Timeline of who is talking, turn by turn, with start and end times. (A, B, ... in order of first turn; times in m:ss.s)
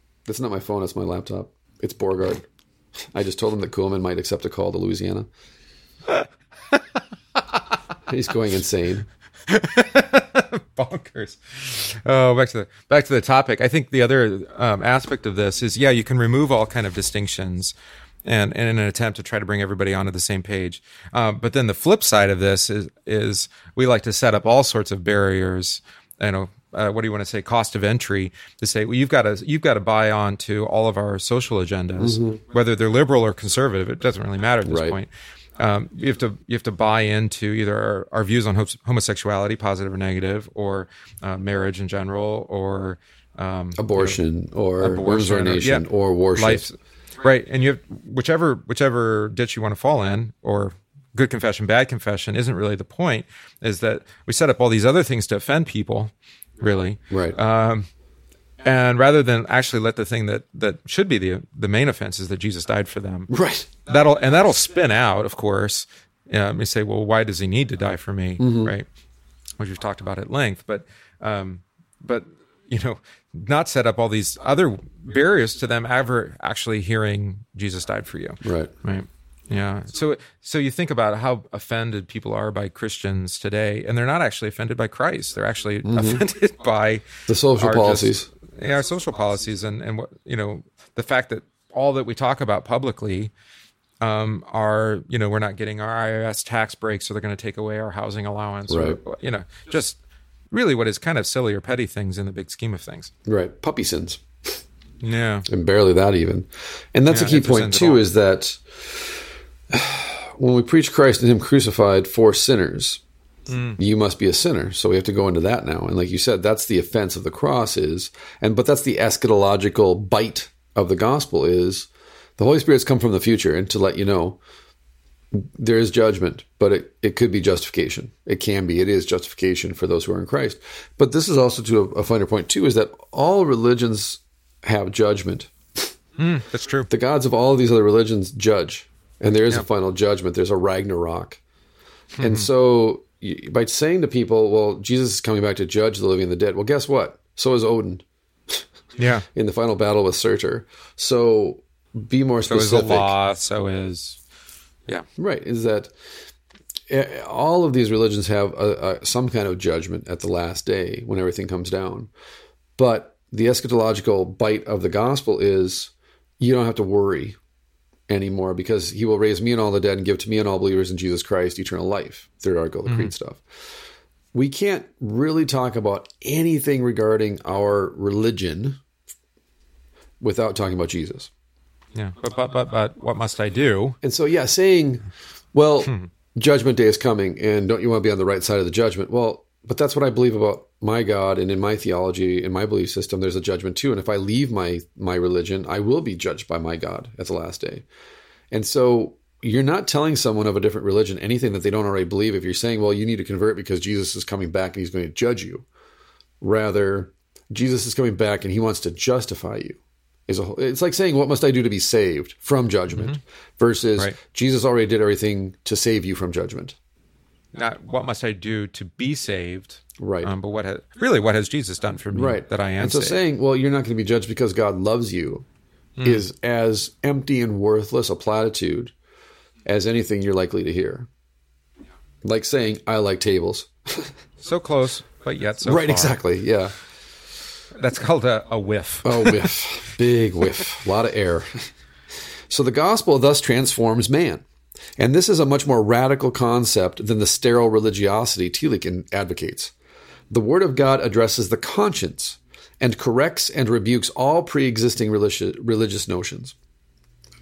0:00.3-0:02.4 A
0:03.1-0:05.3 A
0:06.1-0:06.8 B
0:07.3-0:07.6 B
0:08.1-0:09.0 A
0:09.5-0:44.2 B
0:32.0-0:32.4 A
0:34.6-0:35.0 A
0:43.8-0:46.7 A
0:44.8-0:57.9 B
0:57.1-0:57.4 A
0:58.6-1:03.3 B
1:03.3-1:03.7 A
1:03.8-1:08.8 B
1:08.4-1:08.7 A
1:09.6-1:33.3 B
1:18.4-1:18.7 A
1:25.8-1:26.2 A
1:27.3-1:28.3 A
1:34.0-1:40.0 B
1:38.7-1:39.0 A
1:40.5-1:43.1 B
1:43.2-1:44.2 A
1:45.0-1:45.4 B
1:45.5-1:49.1 A
1:47.1-1:48.0 B
1:49.7-1:53.0 A
1:53.5-1:53.8 B
1:53.8-2:04.4 A
2:05.3-2:15.9 A
2:16.2-2:16.9 B
2:16.9-2:21.4 A
2:22.2-2:22.5 B
2:22.2-2:28.6 A
2:29.0-2:29.2 B
2:29.3-2:33.1 A
2:32.5-2:34.2 B
2:35.2-2:35.9 A
2:36.9-2:42.1 A
2:42.8-2:47.4 A
2:48.1-2:53.4 A
2:52.8-2:53.1 B
2:54.3-2:58.8 A
3:00.2-3:01.3 A
3:01.9-3:04.0 B
3:04.0-3:17.8 A
3:18.5-3:25.6 A
3:26.4-3:36.8 A
3:32.9-3:33.2 B
3:37.5-3:43.2 B
3:40.0-3:40.3 A
3:42.1-3:45.4 A
3:46.0-3:46.2 B
3:46.0-3:48.9 A
3:49.6-3:51.1 A
3:52.2-3:54.1 A
3:54.4-3:56.2 B
3:55.6-3:56.7 A
3:57.7-3:59.5 B
3:59.0-4:01.7 A
4:02.5-4:04.4 A
4:05.0-4:09.7 A
4:10.3-4:16.5 A